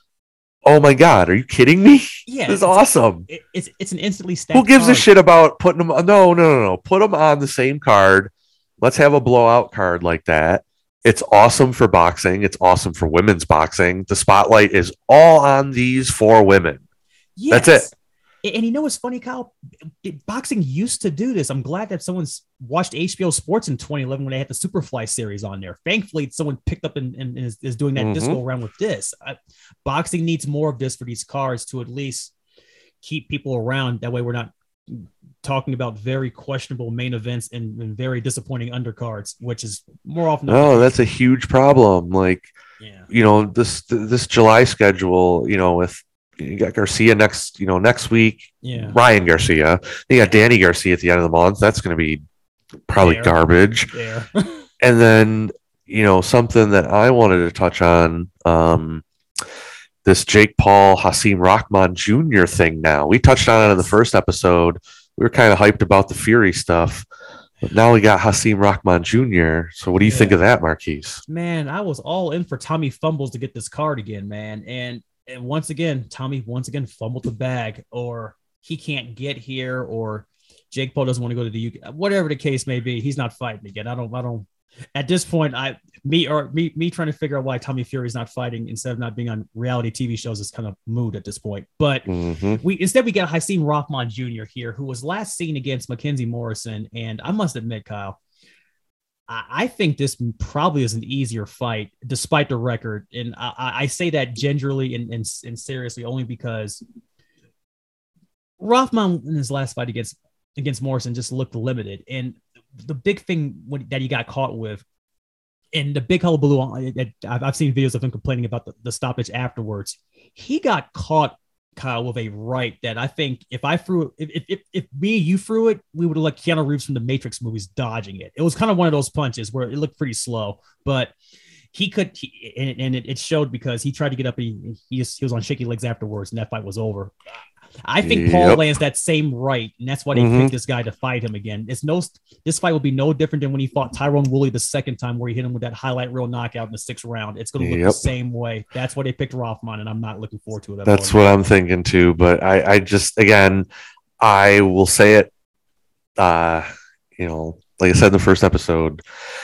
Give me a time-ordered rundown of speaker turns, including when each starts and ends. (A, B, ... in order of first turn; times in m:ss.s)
0:00.6-0:03.3 A
0:02.3-0:05.1 B
0:04.5-0:16.8 A
0:17.4-0:32.3 B
0:17.5-0:17.9 A
0:28.0-0:28.4 A
0:33.0-0:41.0 B
0:40.5-0:42.5 A
0:42.8-0:43.1 B
0:43.1-0:52.2 A
0:48.6-0:49.0 B
0:52.9-0:53.9 A
0:53.0-0:53.4 B
0:53.9-0:54.6 B
0:54.8-0:59.0 A
1:00.0-1:07.1 A
1:07.6-1:11.2 A
1:10.0-1:10.4 B
1:11.2-1:38.2 B
1:32.1-1:32.6 A
1:39.3-1:46.8 B
1:48.6-1:54.8 B
1:55.7-2:11.1 B
2:11.7-2:17.1 B
2:17.8-2:31.2 B
2:18.0-2:18.6 A
2:20.1-2:20.5 A
2:27.6-2:28.1 A
2:30.8-2:33.7 A
2:34.2-2:35.3 A
2:36.2-2:39.0 A